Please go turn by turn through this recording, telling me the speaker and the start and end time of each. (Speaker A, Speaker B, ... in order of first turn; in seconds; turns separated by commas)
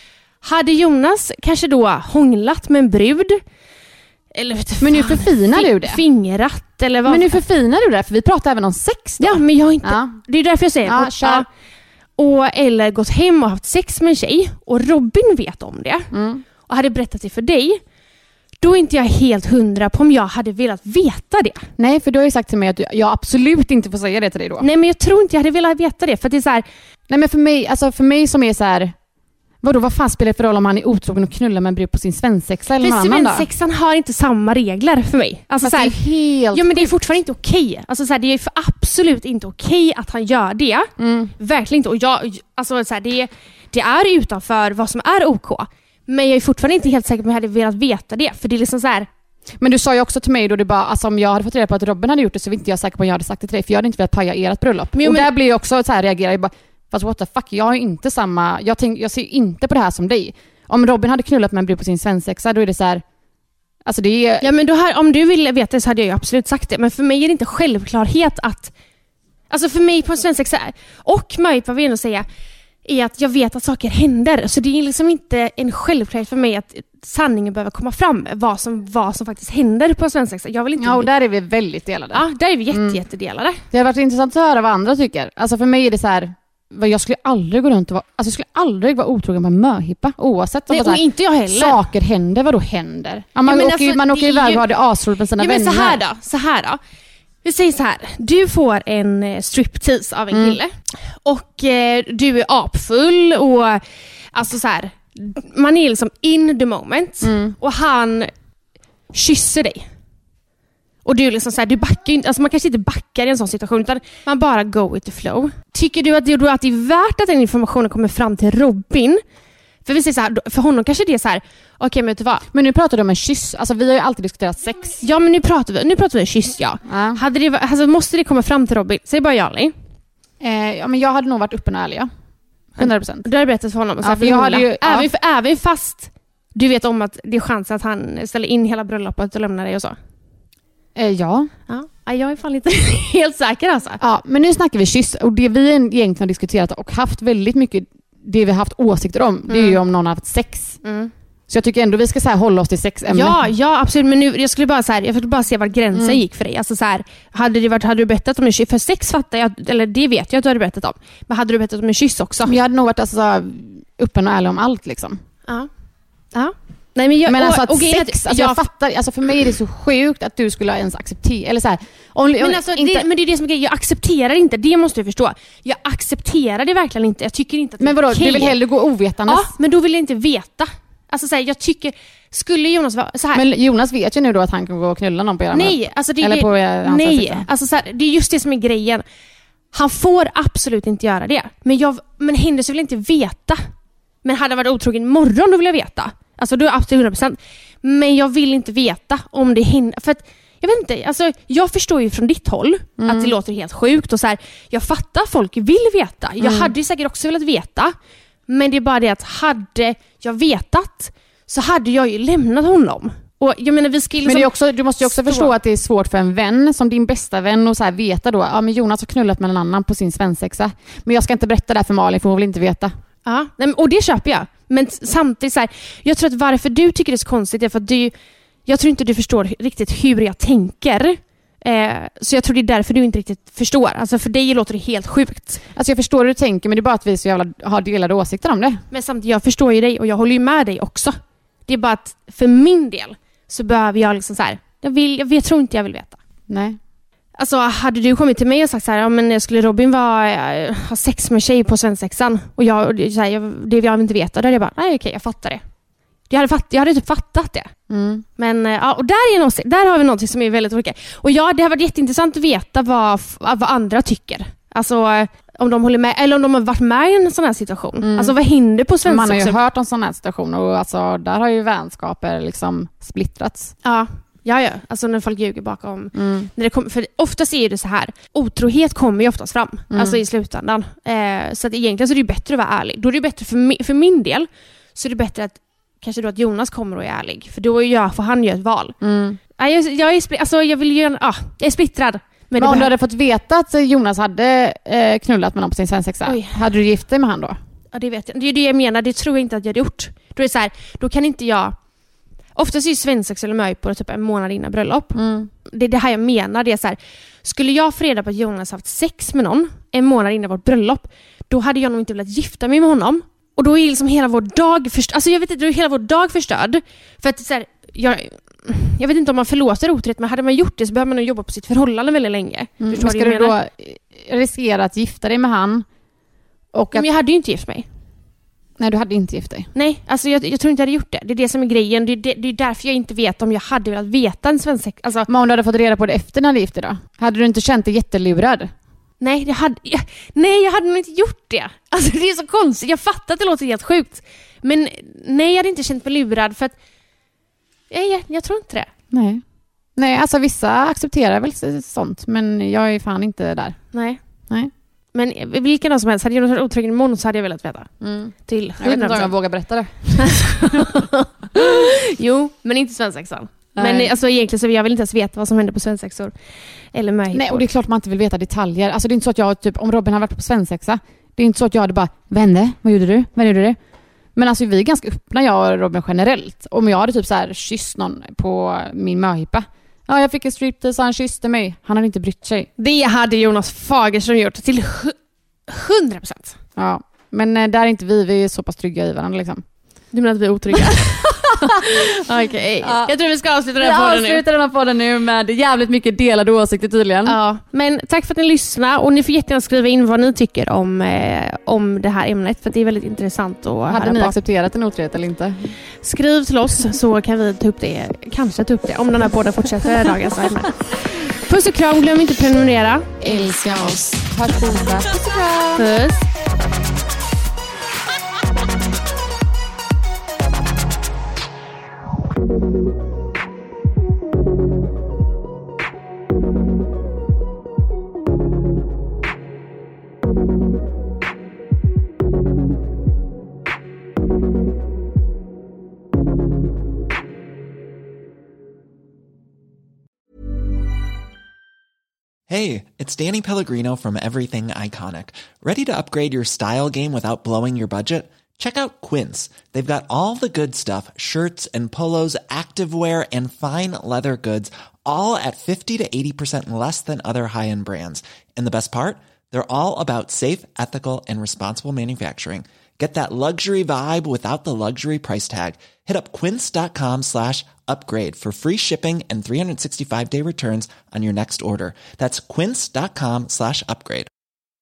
Speaker A: 0.4-3.4, Speaker A: 4.3-7.4, Speaker B: 4.8-6.0, Speaker B: 7.1-10.2, Speaker A: 9.2-11.5, Speaker B: 10.8-11.5, Speaker A: 12.2-16.1, Speaker B: 16.1-16.4, Speaker A: 16.6-17.8, Speaker A: 18.6-21.7, Speaker B: 21.8-24.7, Speaker A: 24.6-26.6, Speaker B: 27.1-28.9, Speaker B: 29.6-33.5, Speaker A: 32.8-49.1, Speaker B: 35.6-36.9, Speaker B: 41.0-41.3, Speaker B: 49.6-63.0, Speaker A: 54.9-55.3, Speaker B: 63.9-64.5, Speaker A: 64.4-68.7, Speaker A: 69.5-72.2, Speaker A: 72.8-81.1, Speaker B: 80.8-83.0, Speaker A: 82.1-83.6, Speaker B: 83.7-96.0, Speaker A: 90.7-91.8, Speaker A: 93.4-94.6, Speaker A: 95.4-96.8, Speaker A: 97.4-103.8, Speaker B: 100.3-100.6, Speaker A: 104.3-108.3, Speaker B: 107.2-107.5, Speaker A: 109.1-109.8, Speaker A: 111.0-119.2, Speaker A: 119.8-122.5, Speaker B: 122.5-125.0, Speaker A: 125.0-129.7, Speaker B: 126.8-127.2, Speaker B: 130.4-132.1, Speaker B: 132.7-133.3, Speaker A: 132.8-139.9, Speaker B: 134.0-135.1, Speaker B: 140.9-141.5, Speaker A: 141.7-144.0, Speaker B: 144.0-150.8, Speaker A: 149.5-149.8, Speaker A: 150.8-151.1, Speaker B: 151.5-153.4, Speaker A: 153.1-162.6, Speaker B: 155.9-156.2, Speaker B: 162.4-165.2, Speaker A: 166.3-168.7, Speaker B: 167.2-173.1, Speaker A: 172.4-178.6, Speaker B: 177.8-179.5, Speaker A: 179.3-183.4, Speaker B: 183.3-187.5, Speaker A: 185.5-189.0, Speaker A: 189.7-193.6, Speaker A: 194.2-207.9, Speaker B: 203.0-203.3, Speaker B: 206.4-206.7, Speaker A: 208.5-215.5, Speaker B: 214.2-222.9, Speaker A: 223.2-228.1, Speaker A: 228.7-235.6, Speaker B: 235.8-238.8, Speaker A: 238.9-241.2, Speaker A: 241.7-246.2, Speaker B: 246.5-246.8, Speaker A: 247.4-255.6, Speaker A: 256.3-257.7, Speaker B: 257.9-258.2, Speaker A: 258.4-269.6, Speaker B: 268.0-268.3, Speaker B: 269.0-273.7, Speaker A: 273.8-289.0, Speaker B: 276.1-276.5, Speaker B: 279.9-280.2, Speaker B: 289.0-289.4, Speaker A: 289.6-292.9, Speaker B: 292.6-297.6, Speaker A: 296.2-296.6, Speaker A: 297.9-301.8, Speaker A: 302.5-323.6, Speaker B: 305.1-305.5, Speaker B: 322.8-325.9, Speaker B: 326.7-327.1, Speaker A: 326.9-327.9, Speaker B: 328.8-329.7, Speaker A: 329.7-335.3, Speaker B: 335.3-338.7, Speaker A: 339.2-346.8, Speaker A: 347.9-348.9, Speaker B: 349.1-349.4, Speaker B: 349.9-353.8, Speaker A: 353.9-354.2, Speaker A: 355.1-357.9, Speaker B: 358.0-361.0, Speaker A: 358.4-359.3, Speaker A: 360.2-366.3, Speaker B: 363.8-364.1, Speaker A: 366.9-367.7, Speaker B: 367.3-373.8, Speaker B: 374.3-382.7, Speaker A: 382.8-385.2, Speaker A: 385.7-386.6, Speaker B: 386.8-389.6, Speaker A: 390.1-394.4, Speaker B: 390.7-392.1, Speaker B: 392.8-393.1, Speaker B: 393.8-397.4, Speaker A: 397.2-404.4, Speaker B: 403.9-405.8, Speaker A: 406.0-413.5, Speaker B: 413.2-415.9, Speaker A: 415.7-416.3, Speaker C: 442.5-474.3